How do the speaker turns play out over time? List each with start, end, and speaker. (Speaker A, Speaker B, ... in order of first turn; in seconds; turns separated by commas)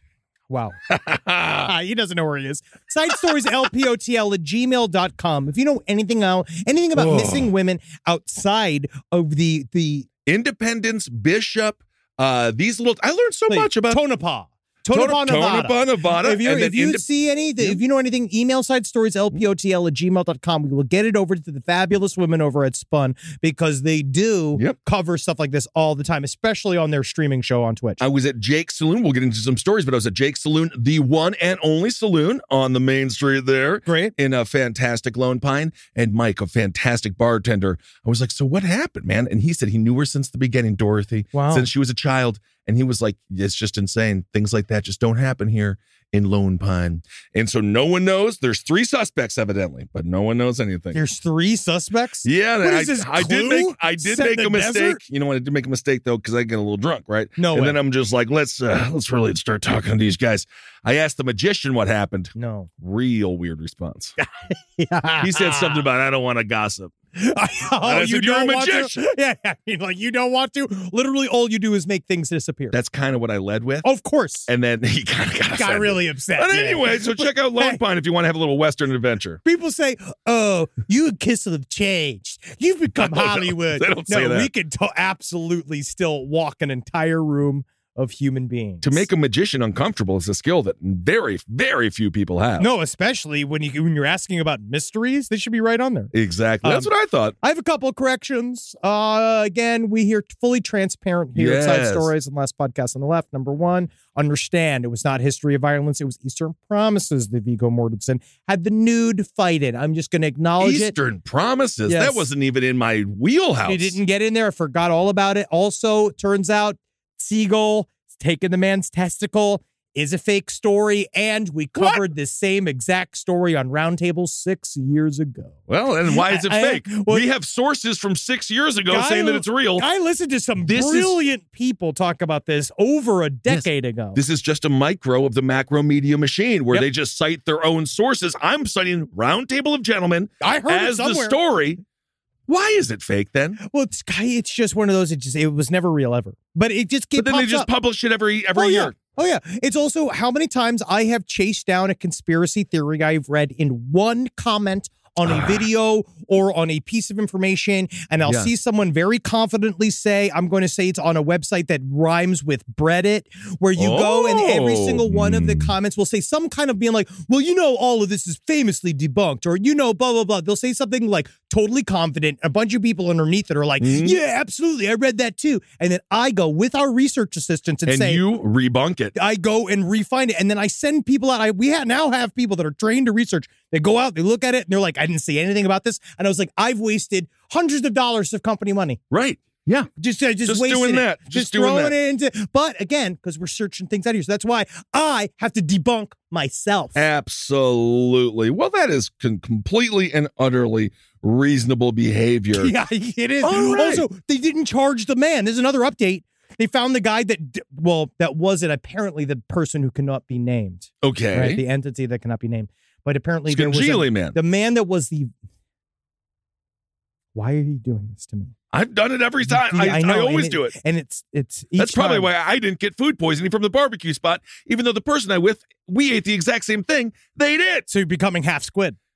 Speaker A: 0.5-0.8, Speaker B: 0.9-1.7, Speaker A: 1.6-10.1, Speaker B: 6.9-7.5, Speaker B: 10.2-14.0, Speaker A: 13.5-28.0, Speaker B: 14.9-17.1, Speaker B: 28.0-51.0, Speaker A: 33.9-34.1, Speaker A: 41.3-41.7, Speaker A: 50.9-55.0, Speaker B: 52.2-64.1, Speaker A: 57.4-57.8, Speaker A: 62.4-62.7, Speaker A: 64.2-65.8, Speaker B: 65.2-66.9, Speaker A: 67.2-72.8, Speaker B: 67.8-69.1, Speaker B: 72.7-73.9, Speaker A: 73.8-74.5, Speaker B: 74.5-79.4, Speaker A: 75.5-77.8, Speaker A: 79.4-89.0, Speaker B: 83.0-84.5, Speaker B: 88.8-92.7, Speaker A: 92.6-96.9, Speaker B: 96.1-97.3, Speaker A: 97.4-110.9, Speaker B: 101.3-102.1, Speaker B: 110.6-114.0, Speaker A: 111.9-112.3, Speaker A: 113.6-127.2, Speaker B: 121.8-122.0, Speaker B: 125.7-129.9, Speaker A: 128.9-134.2, Speaker B: 130.6-131.2, Speaker B: 133.5-141.8, Speaker A: 140.4-141.4, Speaker B: 142.5-143.6, Speaker A: 143.7-147.7, Speaker B: 147.2-149.0, Speaker A: 148.5-178.2, Speaker B: 155.2-155.6, Speaker B: 158.2-158.5, Speaker B: 163.8-165.7, Speaker B: 173.8-174.2, Speaker B: 177.8-179.1, Speaker A: 179.1-189.0, Speaker B: 189.1-189.9, Speaker A: 190.0-197.0, Speaker B: 190.4-191.9, Speaker B: 196.9-202.7, Speaker A: 202.5-215.3, Speaker B: 203.4-204.1, Speaker B: 211.0-211.6, Speaker B: 213.5-214.4, Speaker A: 217.3-218.5, Speaker B: 218.7-220.7, Speaker A: 219.4-222.3, Speaker B: 221.8-227.9, Speaker A: 227.9-229.0